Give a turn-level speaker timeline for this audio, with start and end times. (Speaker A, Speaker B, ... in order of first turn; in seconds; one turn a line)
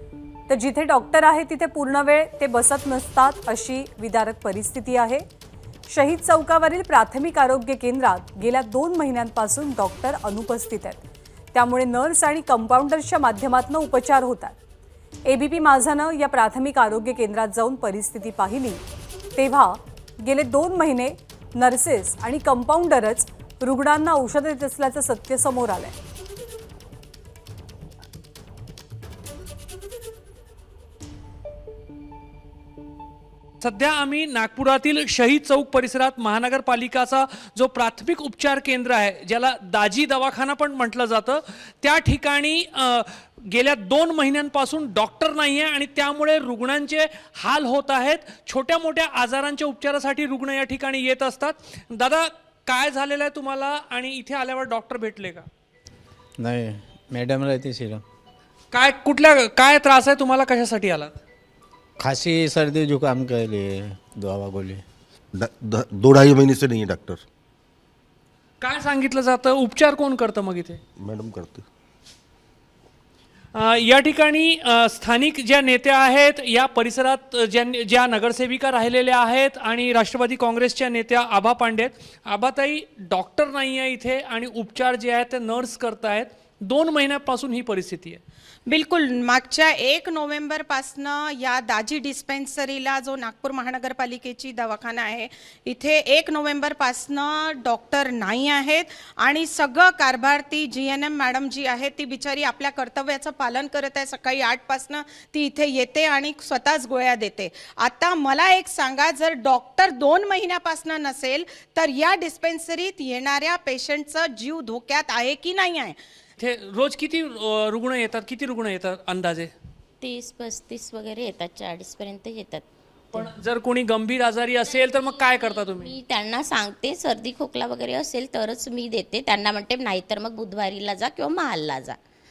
Speaker A: 0.5-5.2
Speaker A: 5.9-11.0
Speaker A: 11.5-14.6
Speaker A: 15.3-18.8
Speaker A: 19.4-26.0
Speaker B: 33.6-55.5
Speaker C: 56.4-58.0
Speaker B: 58.7-61.2
Speaker C: 62.0-64.8
Speaker D: 65.3-67.2
Speaker B: 68.6-70.8
Speaker D: 71.0-71.7
Speaker B: 73.5-88.2
Speaker E: 88.7-116.0
Speaker B: 116.4-119.5
Speaker F: 120.0-123.3
Speaker B: 123.1-125.9
Speaker F: 124.7-132.0